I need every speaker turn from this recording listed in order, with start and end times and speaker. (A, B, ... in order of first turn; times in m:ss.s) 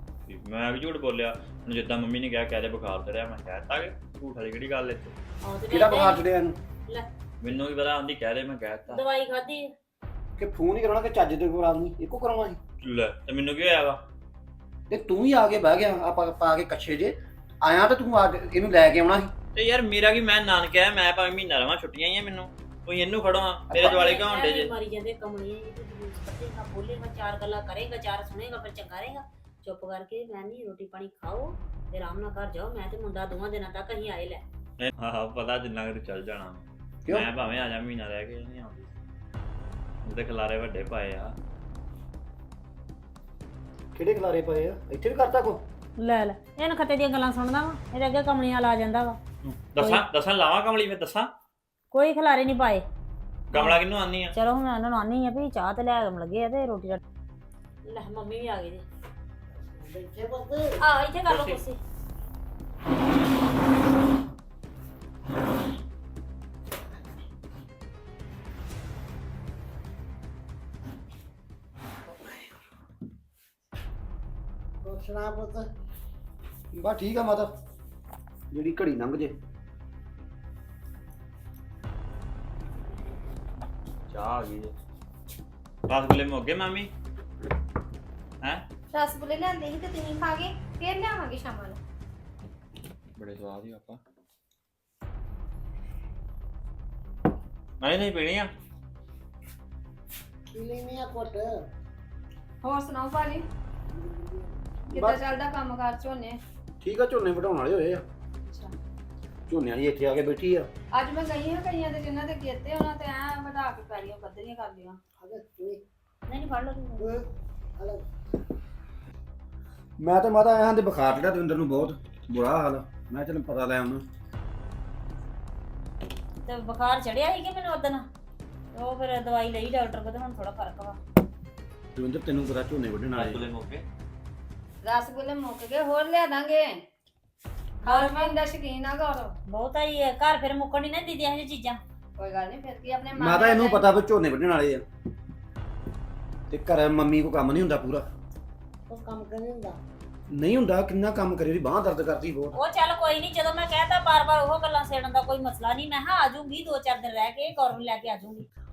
0:00.3-0:05.1 A
0:05.4-0:06.2 B
0:05.7-0:06.6 C
0:07.4-0:09.0 A
0:08.9-0:09.7 B
0:10.4-0:12.6 C
0:12.8-0:14.0 A
0:14.9-0:19.3 C
0:19.5-0:24.7 A
0:23.7-0:34.4 B
0:34.8-0:38.9 A
0:40.0-0:41.3 A
0:43.9-0:45.6 C
0:46.0-0:49.2 B
0:49.4-0:51.3 A
0:49.8-0:50.0 B
0:51.9-0:52.8 B
0:53.5-0:54.3 A
0:53.5-0:53.8 B
0:54.3-0:57.0 B
0:57.8-0:58.8 B
0:59.6-1:00.6 D
1:00.8-1:01.8 B
1:01.3-1:01.6 A
1:14.8-1:15.6 D
1:16.7-1:17.5 C
1:18.5-1:19.3 C
1:24.1-1:24.7 A
1:25.9-1:26.9 A
1:28.9-1:31.8 E
1:33.2-1:34.0 A
1:37.8-1:38.5 A
1:40.5-1:41.5 D
1:42.6-1:43.4 F
1:43.9-1:44.6 D
1:44.9-1:46.4 F
1:46.8-1:48.0 C
1:48.4-1:48.7 F
1:49.5-1:50.7 C
1:50.9-1:55.0 F
1:55.2-1:55.8 D
1:56.3-1:57.1 B
1:57.0-1:57.2 D
1:57.8-1:58.0 D
2:00.0-2:04.0 C
2:06.4-2:08.0 B
2:08.7-2:11.0 B
2:11.9-2:13.4 C
2:13.1-2:13.8 A
2:14.8-2:16.7 F
2:17.8-2:19.3 F
2:17.8-2:18.3 B
2:19.5-2:21.8 B
2:22.2-2:23.9 F
2:23.2-2:24.8 C
2:26.5-2:28.0 C
2:28.9-2:29.8 D
2:30.3-2:32.6 C
2:32.5-2:38.5 B